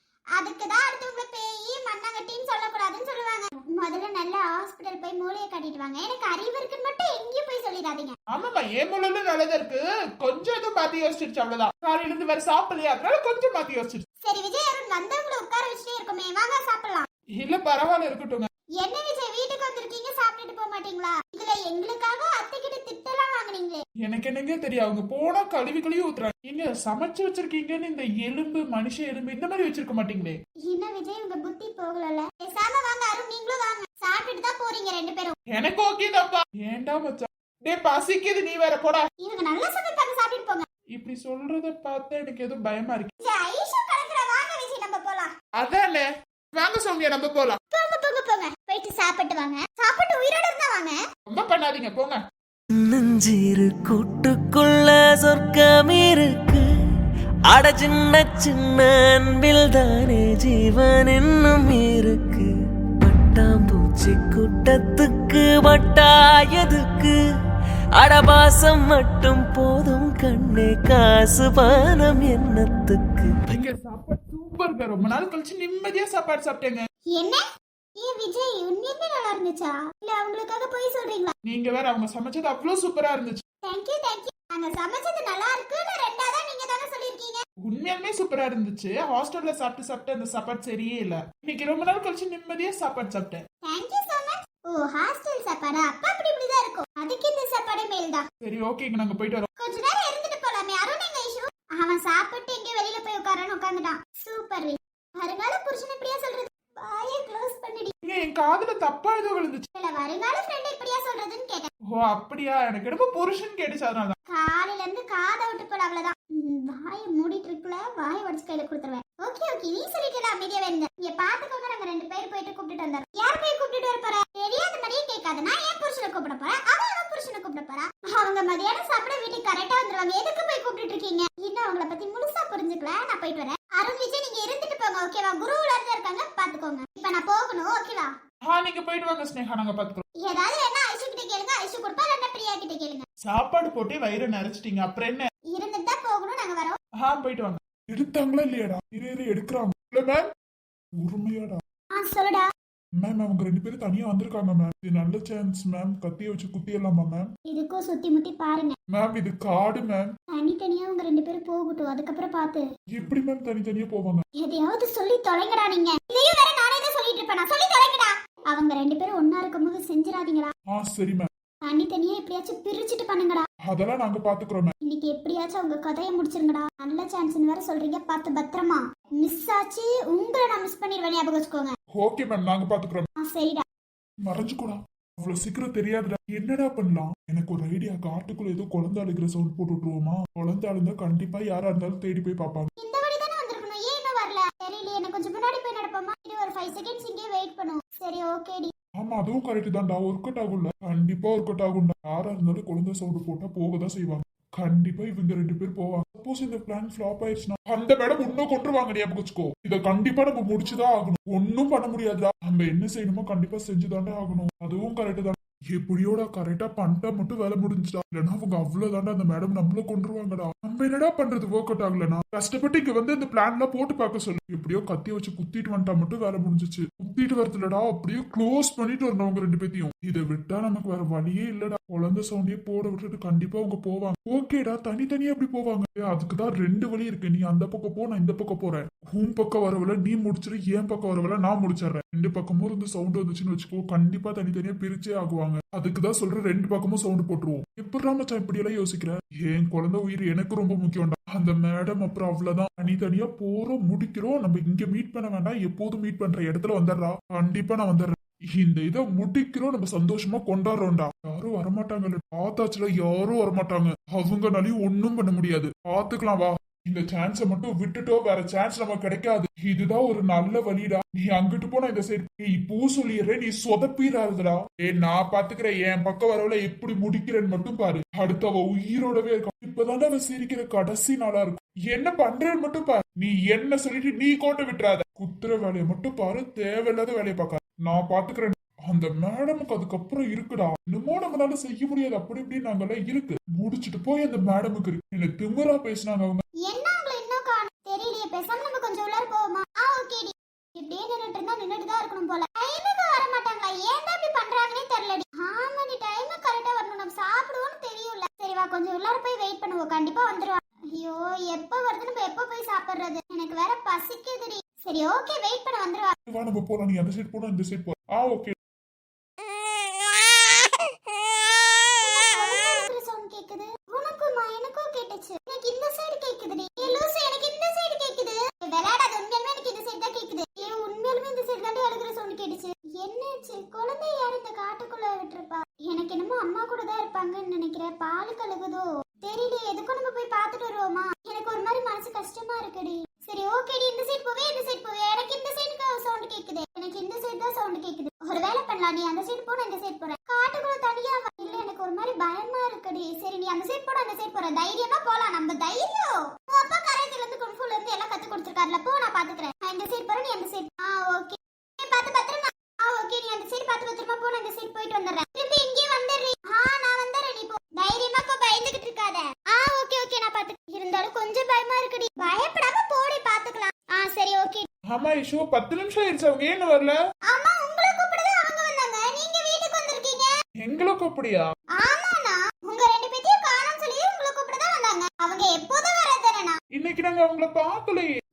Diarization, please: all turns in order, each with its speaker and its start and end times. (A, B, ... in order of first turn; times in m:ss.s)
0:00.3-0:08.2 A
0:08.3-0:14.0 B
0:14.2-0:17.1 A
0:17.4-0:18.5 B
0:18.8-0:23.8 A
0:24.0-0:30.4 B
0:30.6-0:35.3 A
0:35.5-0:39.0 B
0:39.2-0:40.7 A
0:40.9-0:43.1 B
0:43.2-0:45.3 A
0:45.6-0:47.6 B
0:47.7-0:51.0 A
0:51.3-0:52.2 B
0:52.8-0:56.6 C
0:57.5-1:02.5 C
1:03.0-1:07.2 C
1:08.0-1:13.3 C
1:13.5-1:16.8 B
1:17.1-1:17.4 A
1:18.0-1:21.3 A
1:21.4-1:23.4 B
1:23.6-1:27.4 A
1:27.6-1:33.4 B
1:33.6-1:38.2 A
1:38.4-1:39.5 B
1:39.6-1:47.9 A
1:48.0-1:49.6 B
1:49.7-1:51.7 A
1:51.9-1:54.2 B
1:54.3-2:18.1 A
2:18.5-2:20.0 B
2:20.2-2:23.0 A
2:23.2-2:25.3 B
2:25.5-2:26.8 A
2:27.0-2:30.3 B
2:31.0-2:31.6 B
2:32.0-2:32.5 A
2:33.0-2:37.3 B
2:37.5-2:38.8 A
2:38.9-2:40.0 B
2:40.3-2:42.6 A
2:42.9-2:44.2 B
2:44.4-2:50.5 A
2:50.7-2:51.3 B
2:51.6-2:53.4 A
2:53.7-2:54.7 B
2:54.8-3:01.7 A
3:02.0-3:03.1 B
3:03.2-3:03.6 A
3:04.2-3:12.7 B
3:12.8-3:18.7 A
3:19.0-4:56.4 B
4:56.6-5:16.1 A
5:16.3-5:18.5 B
5:21.9-6:14.7 A
6:14.9-6:16.9 B
6:17.3-6:20.3 A
6:20.6-6:21.4 B
6:21.8-6:26.6 A
6:26.7-6:28.1 B